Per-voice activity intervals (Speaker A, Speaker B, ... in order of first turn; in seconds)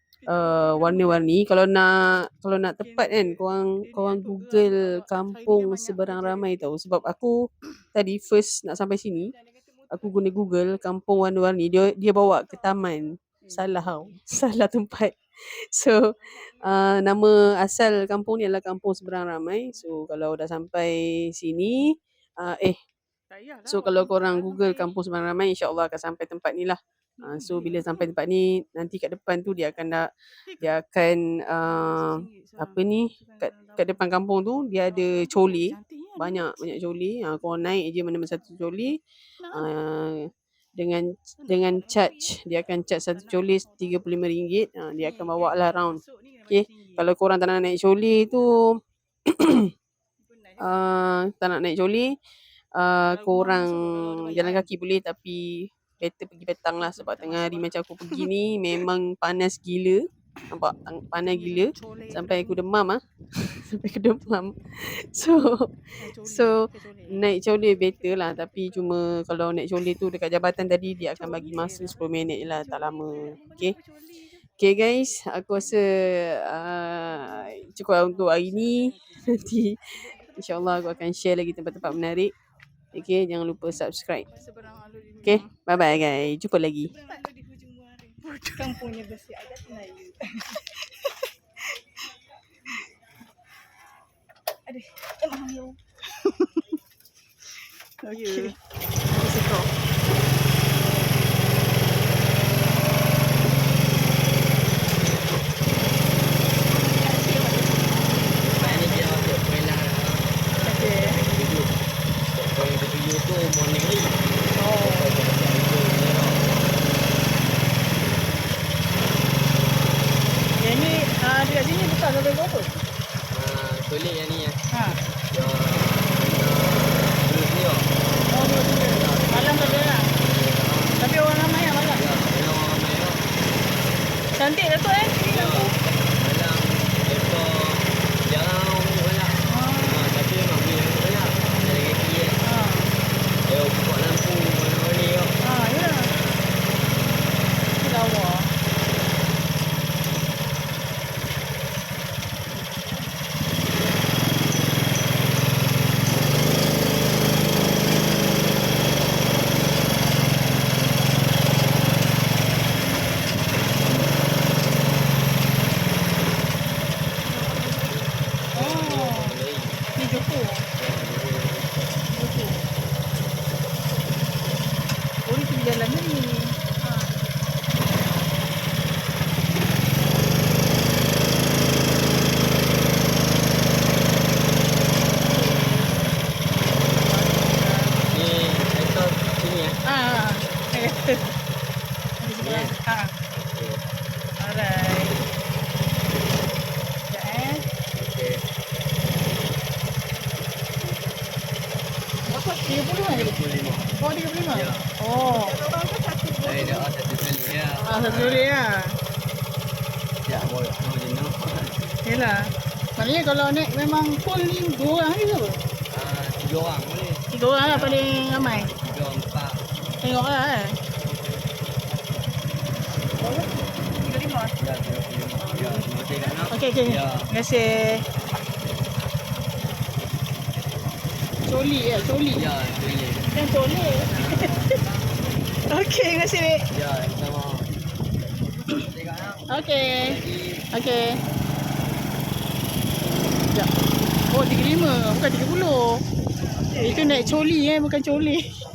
Speaker A: 0.2-1.3, 2.8-6.6, 13.4-14.1, 23.3-24.9, 27.2-28.1, 30.5-30.7, 31.7-34.0, 34.8-36.7, 39.4-39.7, 41.4-44.1, 45.0-47.1, 50.2-50.9, 53.1-54.7, 56.8-58.3, 61.2-62.6, 66.0-67.3, 71.2-72.4, 73.3-73.6, 78.0-79.3, 84.3-85.5, 88.2-88.8, 96.2-96.6, 98.0-98.5, 99.1-99.7, 110.6-111.2, 114.5-115.1, 120.6-122.8, 124.7-125.0, 128.3-130.1, 131.0-132.0, 134.4-135.8, 139.5-140.0, 142.4-142.9, 145.4-146.1, 147.8-148.5, 168.6-169.4, 169.9-170.6, 172.1-172.6, 175.3-176.4, 185.4-185.8, 186.9-188.0, 189.9-191.3, 192.2-193.1, 194.4-195.1, 197.1-197.7, 202.6-203.3, 204.0-205.6, 207.8-208.9, 212.1-212.4, 213.0-215.6, 217.3-218.7, 220.0-220.8, 223.2-224.5, 226.5-228.1, 231.4-232.4, 233.3-234.8, 235.7-236.7, 239.5-240.2, 240.7-241.2, 244.3-246.0, 246.7-248.5
Speaker B: 0.3-9.3, 9.9-22.8, 23.6-39.0, 39.5-49.7, 50.6-52.1, 52.8-73.8, 74.6-82.3, 82.9-84.3, 85.2-86.9
Speaker C: 9.3-10.4, 73.1-73.8, 79.9-81.1, 86.8-90.9, 94.7-95.8, 98.1-98.5, 106.8-109.1, 167.4-167.9, 202.3-203.1, 205.3-206.9, 225.6-225.8, 246.6-247.4
Speaker D: 108.4-111.8, 112.3-116.5, 123.3-124.6, 125.3-127.9, 128.9-131.0, 131.9-133.3, 135.3-142.4, 143.4-145.4, 168.5-169.8, 170.8-171.8, 188.0-189.8, 192.4-192.8, 193.3-193.9, 197.9-198.4, 203.0-203.9, 204.5-204.8, 206.4-208.5, 210.2-211.9, 215.9-219.6, 224.6-227.3, 232.3-233.3, 234.1-234.9, 236.7-237.7, 238.7-240.7